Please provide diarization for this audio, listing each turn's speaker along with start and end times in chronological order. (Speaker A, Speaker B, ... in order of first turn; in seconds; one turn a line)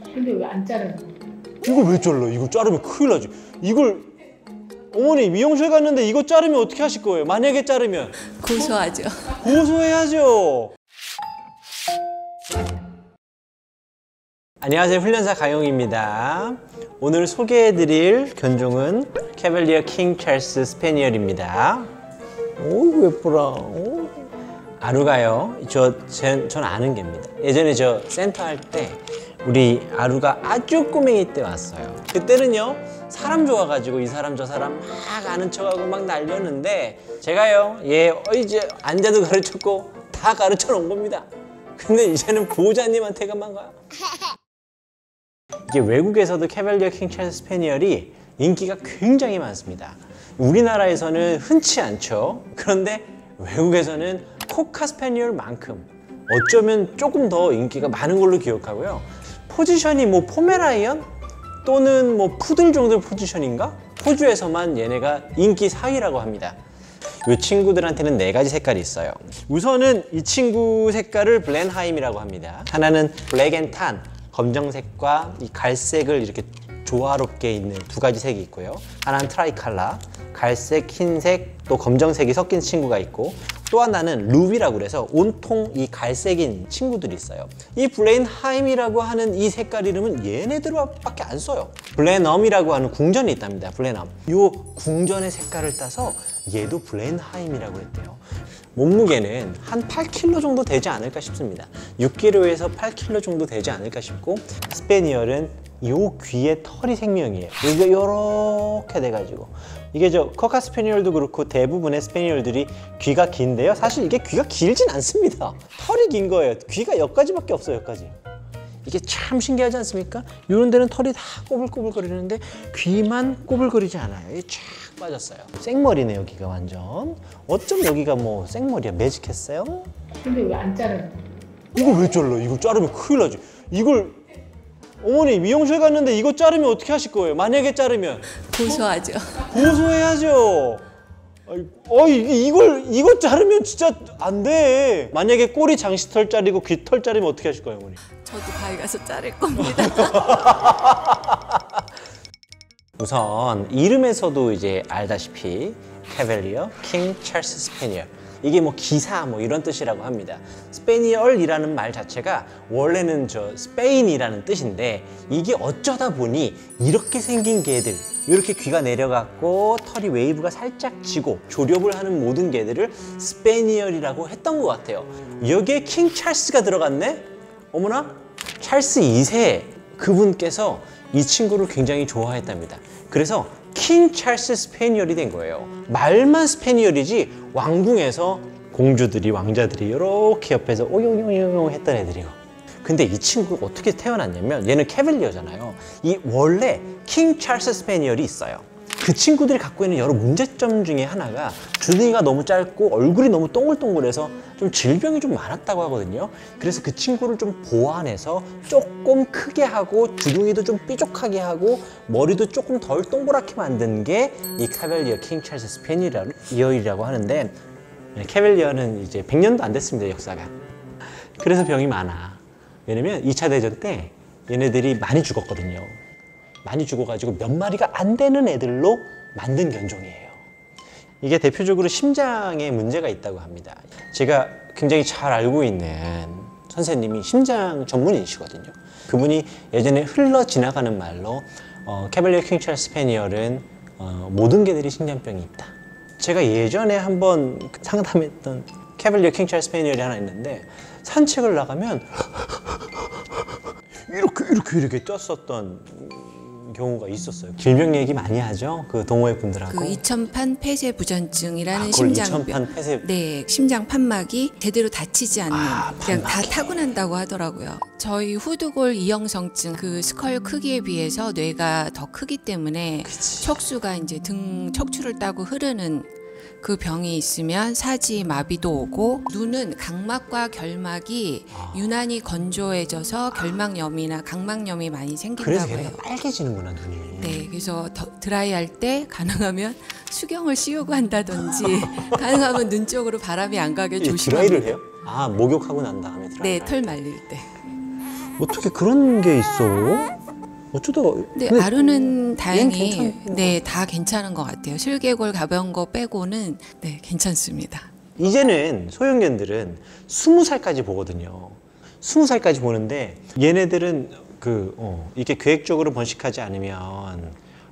Speaker A: 0.1-1.2
Speaker B: 1.6-4.1
Speaker B: 4.9-8.8
Speaker C: 8.4-9.6
Speaker B: 9.3-10.8
Speaker B: 14.6-21.9
Speaker B: 22.6-24.2
Speaker B: 24.8-43.8
Speaker B: 45.7-61.1
Speaker B: 61.6-66.6
Speaker B: 67.2-98.2
Speaker B: 98.8-118.2
Speaker B: 118.8-129.9
Speaker A: 130.2-131.2
Speaker B: 131.7-134.2
Speaker B: 135.0-138.8
Speaker C: 138.4-139.8
Speaker B: 139.4-140.8
Speaker B: 141.5-148.0
Speaker C: 148.2-150.7
Speaker B: 149.6-151.6
Speaker B: 153.0-217.6
Speaker B: 218.2-220.5
Speaker B: 221.4-226.0
Speaker B: 226.7-230.4
Speaker B: 231.2-252.5
Speaker B: 253.9-260.0
Speaker C: 259.7-276.1
Speaker B: 261.7-263.1
Speaker B: 265.5-266.9
Speaker B: 273.1-273.6
Speaker C: 276.6-286.0
Speaker B: 281.5-281.9
Speaker B: 285.4-287.5
Speaker C: 287.2-294.8
Speaker B: 294.0-297.0
Speaker C: 296.4-297.5
Speaker B: 298.4-300.2
Speaker B: 300.7-303.6
Speaker C: 301.4-307.9
Speaker B: 308.2-317.4